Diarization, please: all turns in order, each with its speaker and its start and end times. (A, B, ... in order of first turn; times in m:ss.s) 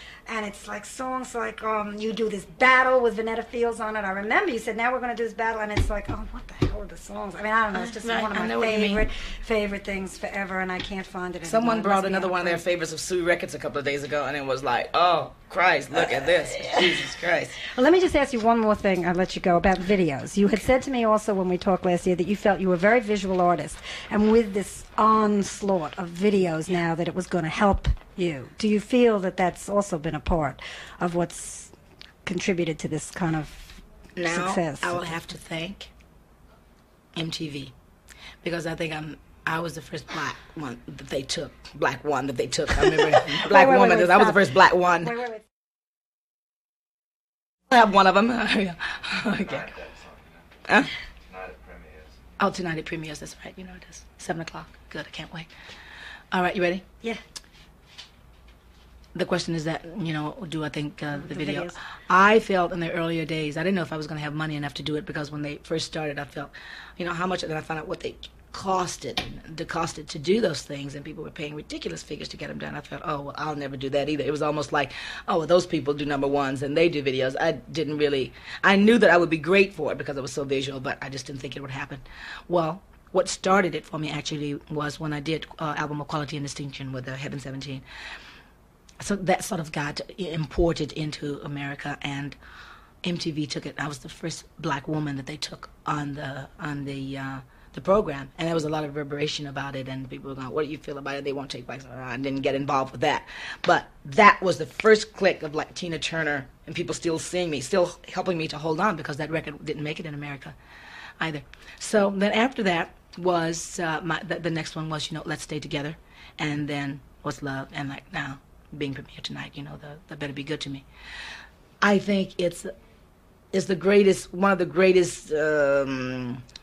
0:00.3-0:12.6 A
0:07.7-0:09.1 B
0:11.4-0:17.6 B
0:16.6-0:16.9 A
0:17.6-0:31.7 A
0:32.2-0:35.1 A
0:34.2-0:35.9 B
0:37.2-0:37.7 B
0:38.4-0:45.2 B
0:42.9-0:44.5 A
0:45.0-0:45.4 A
0:47.7-0:49.8 B
0:49.4-0:50.6 C
0:51.3-0:52.2 C
0:52.4-0:55.5 B
0:56.3-0:56.8 B
0:59.1-1:27.8 B
1:01.2-1:01.7 A
1:29.0-1:32.4 B
1:33.0-1:50.6 B
1:51.2-2:00.9 B
2:01.8-2:02.7 B
2:03.5-2:06.4 B